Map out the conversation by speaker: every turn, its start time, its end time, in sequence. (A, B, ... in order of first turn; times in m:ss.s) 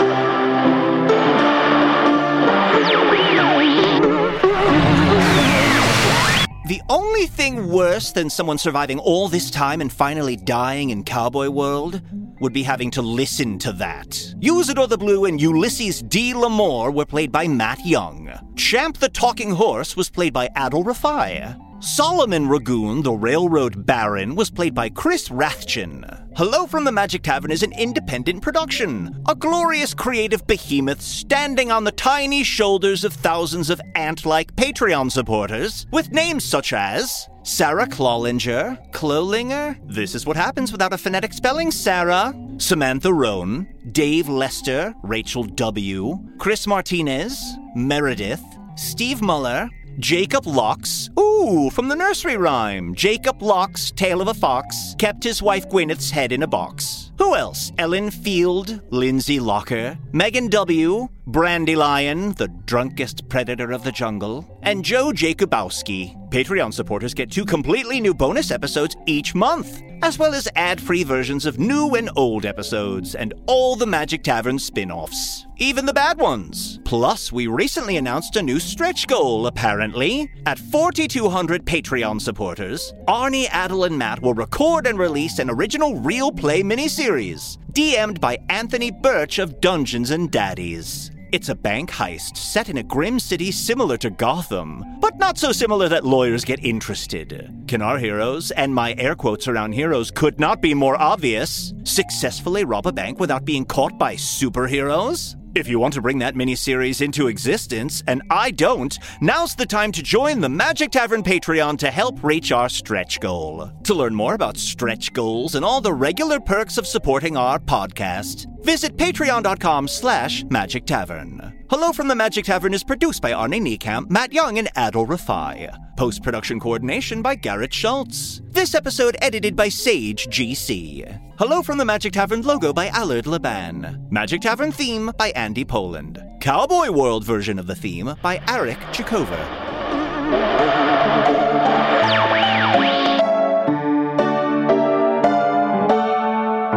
0:06.6-2:19.5 A